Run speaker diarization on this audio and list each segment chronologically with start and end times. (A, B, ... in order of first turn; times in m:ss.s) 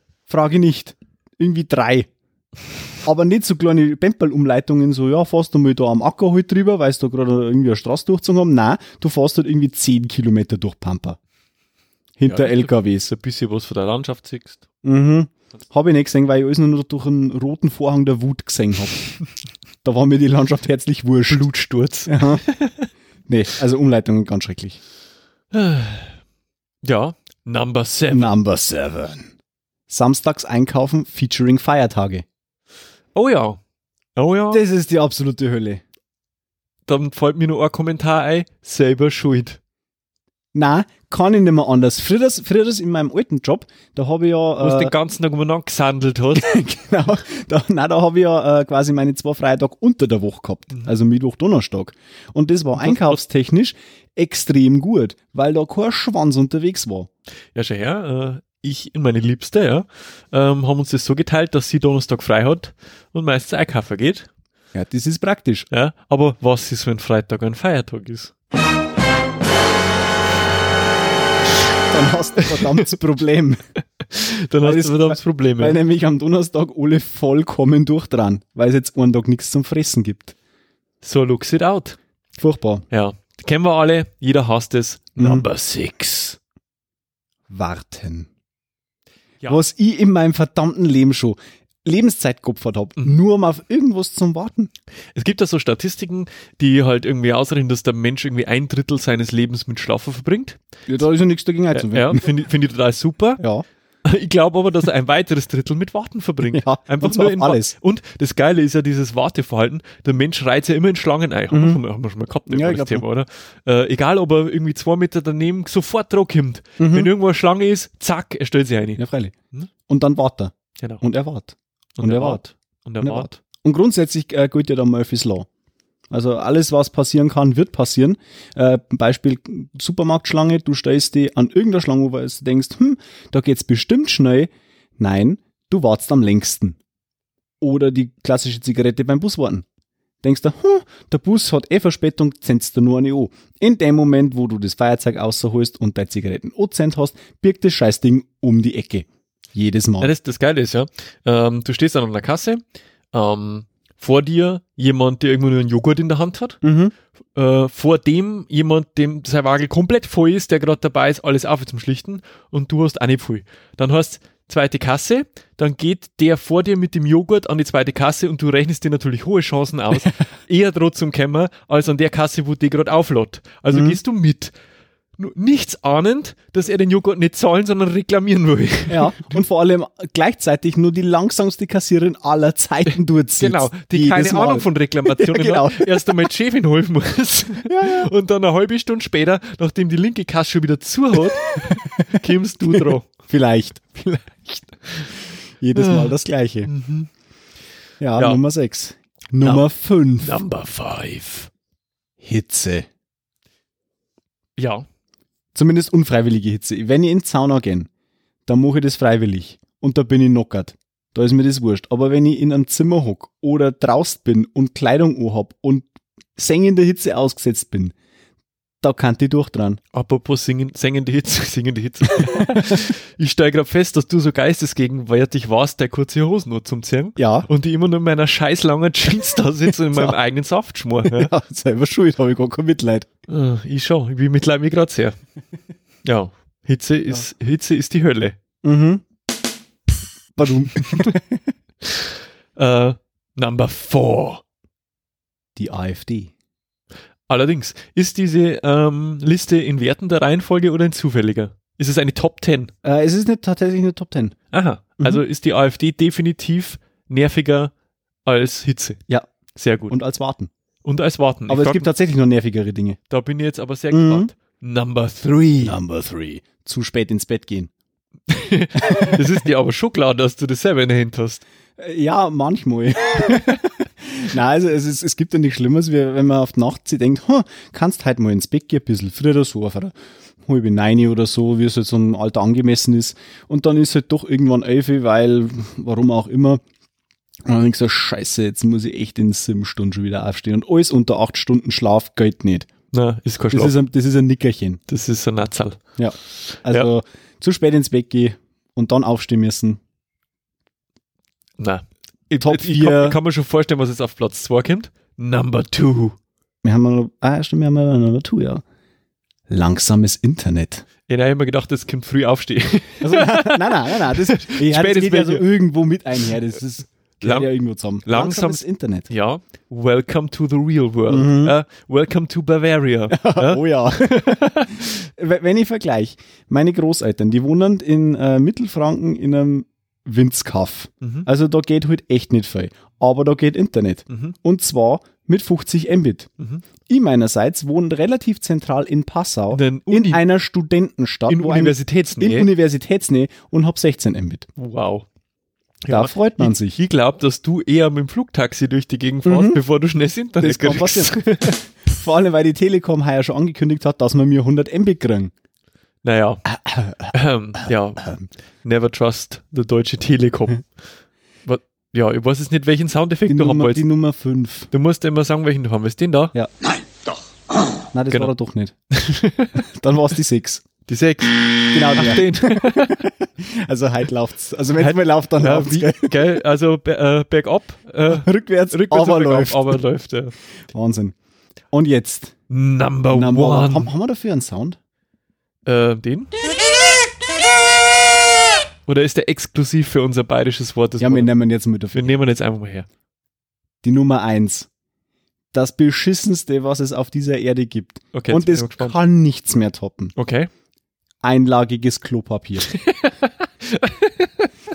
0:00.3-0:02.1 A
0:03.0-0:11.2 A
0:12.2-0:13.1 A
0:12.2-0:14.6 B
0:14.8-0:19.1 A
0:19.8-0:21.4 A
0:21.3-0:22.9 B
0:22.1-0:22.4 A
0:23.3-0:24.8 A
0:25.5-0:26.1 B
0:26.8-0:28.3 B
0:28.1-0:29.3 A
0:29.9-0:32.2 A
0:33.1-0:33.6 B
0:34.2-0:34.6 B
0:34.5-0:35.8 A
0:36.9-0:39.6 B
0:40.5-0:44.9 A
0:44.6-0:46.5 B
0:46.3-0:57.1 A
0:52.8-0:53.2 B
0:57.5-1:04.3 B
1:04.7-1:05.7 A
1:05.7-1:08.3 B
1:11.9-1:13.6 A
1:12.5-1:12.8 B
1:14.0-1:15.8 B
1:14.6-1:20.4 A
1:21.0-1:22.0 B
1:22.4-1:22.8 A
1:22.9-1:26.4 B
1:25.2-1:25.5 A
1:27.5-1:28.3 A
1:29.5-1:34.7 A
1:35.1-1:40.6 B
1:40.9-1:42.2 A
1:41.7-1:43.4 B
1:43.4-1:43.6 A
1:44.0-1:59.0 B
1:46.4-1:47.7 A
1:51.5-1:51.8 A
1:52.5-1:53.0 A
1:56.8-1:57.1 A
1:59.0-1:59.4 A
1:59.9-2:02.4 A
2:02.0-2:03.4 B
2:03.0-2:05.5 A
2:06.1-2:16.8 A
2:17.6-2:19.6 A
2:20.2-2:30.1 A
2:30.0-2:32.6 B
2:33.1-2:36.6 B
2:36.6-2:36.9 A
2:37.3-2:54.5 B
2:53.7-2:54.0 A
2:55.2-2:59.4 B
2:58.9-3:06.3 A
3:03.4-3:13.1 B
3:07.6-3:08.1 A
3:11.6-3:14.6 A
3:15.6-3:16.7 A
3:15.7-3:16.1 B
3:16.6-3:17.1 B
3:18.0-3:20.4 A
3:20.2-3:21.5 B
3:22.2-3:22.9 A
3:24.6-3:24.8 B
3:25.5-3:27.9 A
3:28.5-3:35.8 A
3:36.4-3:37.9 A
3:38.8-3:39.8 A
3:39.9-3:51.3 B
3:42.2-3:42.7 A
3:47.2-3:47.5 A
3:49.8-3:50.2 A
3:51.0-3:53.1 A
3:53.3-3:55.1 B
3:56.0-3:58.4 B
3:58.6-3:59.0 A
4:00.4-4:01.4 A
4:00.8-4:01.1 B
4:01.8-4:04.4 B
4:05.6-4:06.3 A
4:07.3-4:12.7 B
4:12.8-4:14.3 A
4:14.5-4:17.7 B
4:18.2-4:19.0 B
4:19.5-4:20.0 B
4:19.9-4:20.5 A
4:20.8-4:21.9 B
4:21.5-4:23.0 A
4:23.1-4:25.8 B
4:23.9-4:24.3 A
4:25.6-4:27.7 A
4:28.3-4:31.4 B
4:28.8-4:29.2 A
4:31.8-4:39.9 A
4:40.4-4:46.6 A
4:47.4-4:52.7 A
4:52.9-4:53.7 B
4:53.5-4:54.8 A
4:54.9-4:55.8 B
4:56.0-4:59.8 A
5:01.6-5:06.2 B
5:02.4-5:03.2 A
5:06.6-5:08.6 A
5:09.5-5:10.8 A
5:11.1-5:15.4 B
5:13.0-5:19.1 A
5:17.2-5:17.5 B
5:18.0-5:24.9 B
5:21.1-5:21.5 A
5:23.1-5:36.3 A
5:31.0-5:31.3 B
5:34.1-5:34.3 B
5:36.9-5:44.4 A
5:39.5-5:40.2 B
5:41.3-5:42.5 B
5:44.6-5:45.0 B
5:45.8-5:51.6 B
5:45.9-5:46.8 A
5:49.2-5:49.6 A
5:50.4-5:51.2 A
5:51.8-5:55.3 A
5:56.0-5:56.4 B
5:56.5-5:57.1 A
5:57.1-5:58.1 B
5:58.6-6:00.6 B
6:01.4-6:03.8 B
6:03.3-6:04.7 A
6:04.7-6:06.3 B
6:07.9-6:08.7 A
6:08.9-6:09.6 B
6:09.6-6:10.6 A
6:10.9-6:13.0 B
6:11.7-6:16.4 A
6:14.8-6:20.3 B
6:18.1-6:19.7 A
6:20.7-6:21.2 A
6:21.7-6:22.3 A
6:22.5-6:23.9 B
6:23.1-6:24.8 A
6:25.6-6:26.5 B
6:28.9-6:31.3 B
6:31.0-6:32.2 A
6:31.9-6:32.9 B
6:33.8-6:34.7 A
6:35.5-6:40.1 A
6:38.1-6:39.0 B
6:40.2-6:40.5 B
6:41.2-6:42.7 A
6:42.7-6:44.5 B